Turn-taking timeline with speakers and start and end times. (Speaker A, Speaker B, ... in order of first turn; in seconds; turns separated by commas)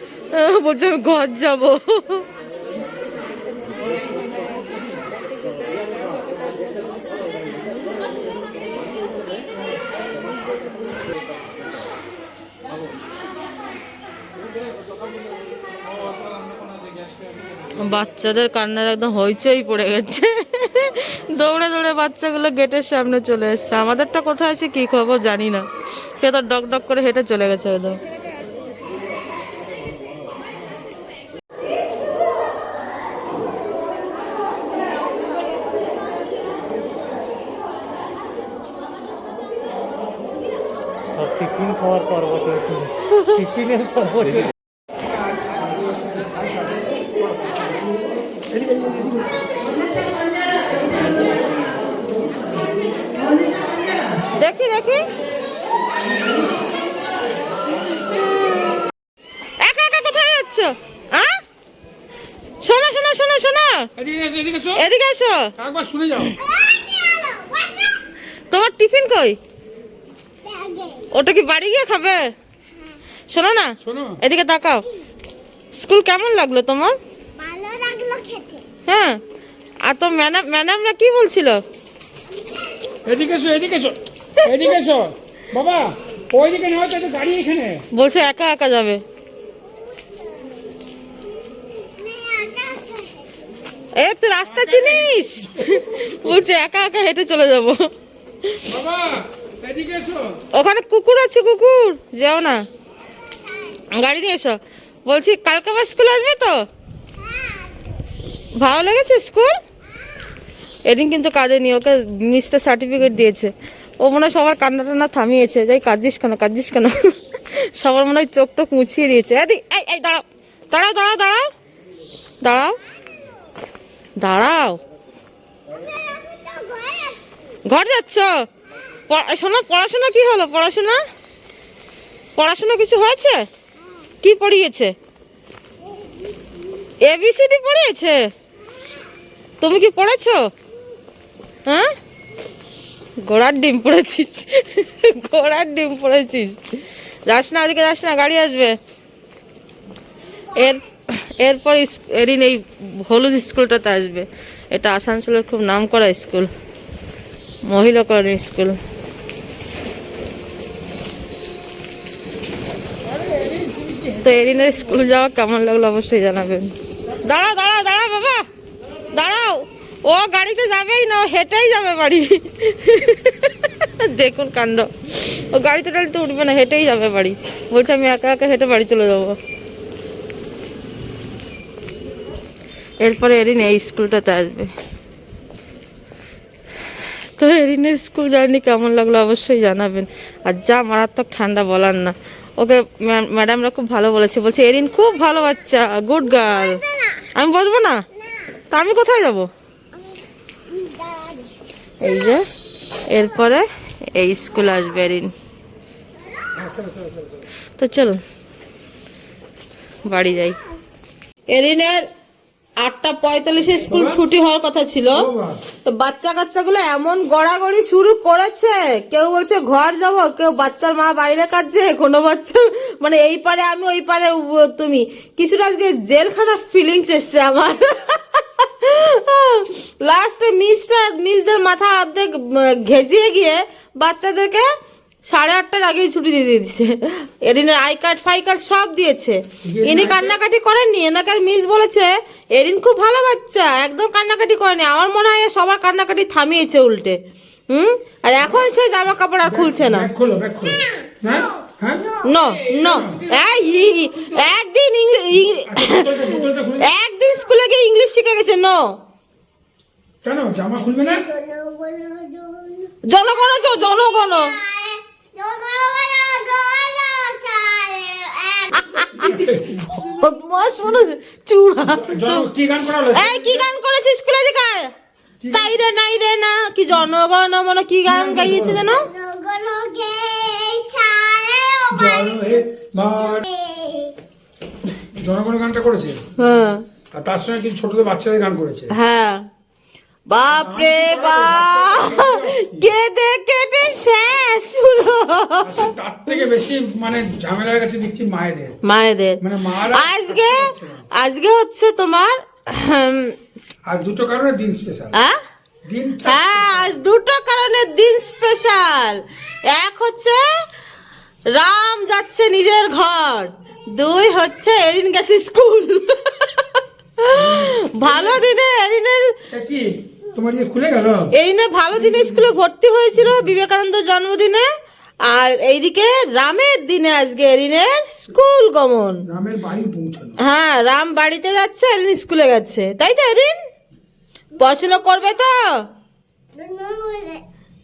Speaker A: 0.3-2.3, Speaker A: 17.8-25.7, Speaker A: 26.2-28.0, Speaker B: 41.2-42.9, Speaker A: 43.1-43.4, Speaker B: 43.5-44.4, Speaker C: 48.6-49.1, Speaker A: 54.4-55.0, Speaker A: 59.6-61.4, Speaker A: 62.6-63.9, Speaker C: 64.0-64.8, Speaker A: 64.7-65.5, Speaker C: 65.6-66.3, Speaker D: 66.4-68.0, Speaker A: 68.5-69.4, Speaker D: 70.4-71.1, Speaker A: 71.1-72.3, Speaker A: 73.3-74.8, Speaker C: 73.8-74.2, Speaker A: 75.7-77.0, Speaker D: 77.4-78.7, Speaker A: 78.8-79.2, Speaker A: 79.8-81.6, Speaker C: 83.0-87.8, Speaker A: 84.4-84.7, Speaker A: 87.9-89.0, Speaker D: 89.7-90.7, Speaker D: 92.0-93.5, Speaker A: 94.0-97.9, Speaker C: 94.5-96.3, Speaker C: 98.7-100.4, Speaker A: 100.5-102.6, Speaker A: 103.9-106.6, Speaker D: 107.2-107.8, Speaker A: 108.6-109.5, Speaker A: 110.9-121.4, Speaker A: 122.4-122.8, Speaker A: 124.2-124.8, Speaker D: 125.7-127.2, Speaker A: 127.7-128.3, Speaker A: 129.1-131.0, Speaker A: 132.3-133.4, Speaker A: 134.2-134.9, Speaker A: 137.0-138.2, Speaker A: 139.6-140.5, Speaker A: 143.2-148.8, Speaker A: 150.5-156.5, Speaker A: 157.6-158.8, Speaker C: 163.3-163.9, Speaker A: 164.1-168.4, Speaker A: 169.1-179.4, Speaker A: 183.0-184.7, Speaker A: 187.3-196.8, Speaker D: 196.4-197.0, Speaker A: 197.3-198.0, Speaker A: 198.7-199.5, Speaker D: 199.9-201.5, Speaker A: 202.0-202.4, Speaker A: 203.1-205.3, Speaker C: 206.5-207.4, Speaker A: 207.8-208.2, Speaker A: 210.1-210.6, Speaker A: 211.5-212.1, Speaker A: 212.8-215.2, Speaker C: 213.9-214.2, Speaker C: 215.1-215.6, Speaker A: 215.8-234.6, Speaker A: 235.3-247.2, Speaker C: 239.7-240.4, Speaker A: 247.7-250.1, Speaker C: 248.4-248.7, Speaker C: 249.4-252.1, Speaker D: 252.0-252.4, Speaker A: 252.2-258.9, Speaker C: 252.6-253.3, Speaker C: 255.4-256.9, Speaker D: 257.2-257.5, Speaker C: 260.2-261.2, Speaker D: 261.1-269.4, Speaker A: 263.1-264.5, Speaker A: 268.8-269.4, Speaker C: 269.2-270.0, Speaker A: 269.9-272.4, Speaker C: 271.8-273.7, Speaker A: 273.1-274.9, Speaker C: 275.4-275.8, Speaker A: 275.5-279.1, Speaker C: 278.1-278.8, Speaker D: 278.9-284.1, Speaker C: 281.9-283.4, Speaker C: 285.0-286.2, Speaker A: 286.4-286.8, Speaker C: 287.1-288.9, Speaker A: 288.9-289.4, Speaker A: 290.3-296.4, Speaker C: 290.5-292.9, Speaker C: 295.6-298.8, Speaker A: 298.8-303.3, Speaker C: 299.4-301.1, Speaker C: 303.9-305.1, Speaker C: 305.9-307.0, Speaker A: 306.2-310.4, Speaker A: 311.5-319.3, Speaker C: 317.3-318.4, Speaker C: 319.5-321.3, Speaker A: 321.3-324.6, Speaker C: 321.9-322.5, Speaker A: 325.3-329.2, Speaker C: 329.3-330.4, Speaker A: 330.4-333.5, Speaker A: 334.6-335.6, Speaker D: 334.7-335.2, Speaker D: 336.5-337.4